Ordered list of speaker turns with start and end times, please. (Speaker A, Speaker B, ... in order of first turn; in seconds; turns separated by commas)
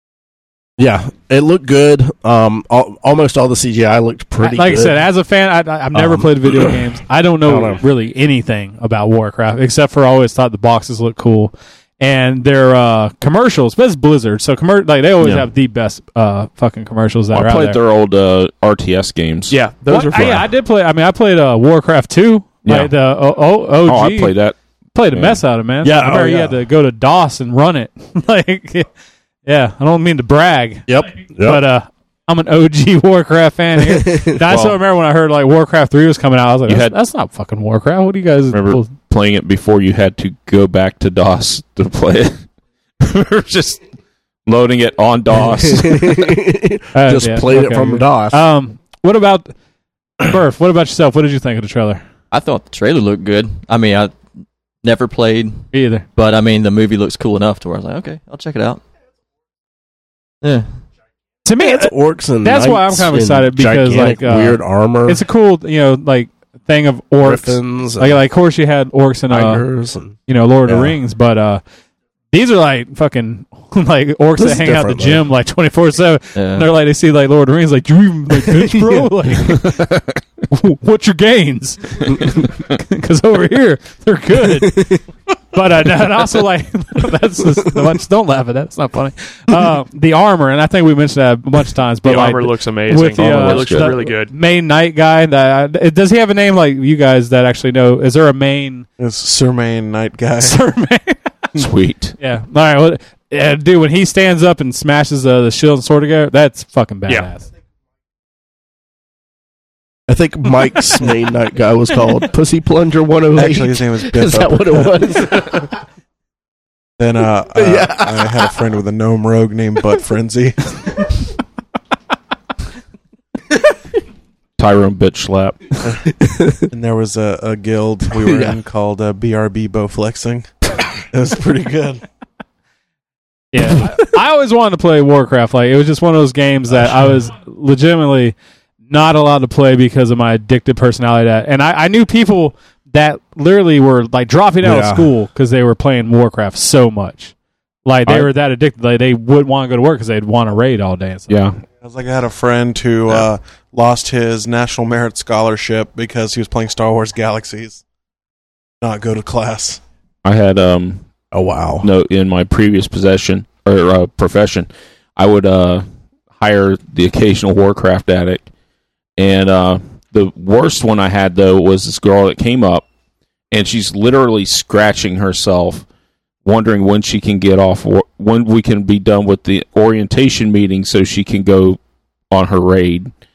Speaker A: 0.8-5.0, Speaker B: 4.4-17.8, Speaker A: 5.9-6.7, Speaker A: 7.4-7.8, Speaker C: 15.2-15.4, Speaker C: 17.3-19.5, Speaker D: 19.5-20.5, Speaker B: 19.9-24.3, Speaker C: 22.6-22.9, Speaker C: 23.9-24.6, Speaker B: 24.9-28.9, Speaker C: 25.1-25.4, Speaker A: 25.8-26.6, Speaker B: 29.4-30.9, Speaker A: 30.9-31.6, Speaker B: 31.4-38.9, Speaker A: 33.9-34.3, Speaker C: 34.5-34.8, Speaker C: 36.6-37.0, Speaker C: 38.5-42.4, Speaker C: 43.0-43.8, Speaker C: 44.5-46.4, Speaker A: 45.3-48.4, Speaker B: 46.9-49.5, Speaker B: 50.2-52.0, Speaker E: 52.3-54.1, Speaker E: 54.8-55.6, Speaker B: 55.7-56.0, Speaker E: 56.1-58.8, Speaker E: 60.4-60.7, Speaker B: 61.4-61.9, Speaker A: 61.6-65.2, Speaker B: 62.4-69.7, Speaker A: 67.2-68.2, Speaker A: 69.3-70.9, Speaker B: 70.3-71.6, Speaker B: 72.3-79.8, Speaker A: 74.4-75.2, Speaker E: 76.3-76.7, Speaker A: 78.5-79.1, Speaker C: 79.5-80.2, Speaker B: 80.5-84.9, Speaker A: 84.6-85.0, Speaker B: 85.5-98.8, Speaker D: 92.0-94.3, Speaker C: 93.1-94.1, Speaker F: 99.0-100.6, Speaker B: 100.4-101.2, Speaker C: 101.6-102.2, Speaker B: 102.2-107.5, Speaker A: 110.1-115.7, Speaker F: 113.3-115.5, Speaker F: 117.0-121.1, Speaker A: 117.5-118.5, Speaker C: 124.6-125.8, Speaker A: 126.2-126.6, Speaker F: 126.7-132.0, Speaker A: 128.2-128.5, Speaker B: 133.5-138.3, Speaker B: 138.9-147.3, Speaker A: 144.6-145.1, Speaker B: 147.8-151.4, Speaker C: 151.3-151.6, Speaker F: 151.8-157.8, Speaker F: 158.8-159.8, Speaker C: 160.2-161.0, Speaker A: 161.3-161.9, Speaker C: 161.8-168.5, Speaker C: 169.2-172.8, Speaker C: 173.5-175.8, Speaker C: 176.4-181.8, Speaker C: 182.3-183.1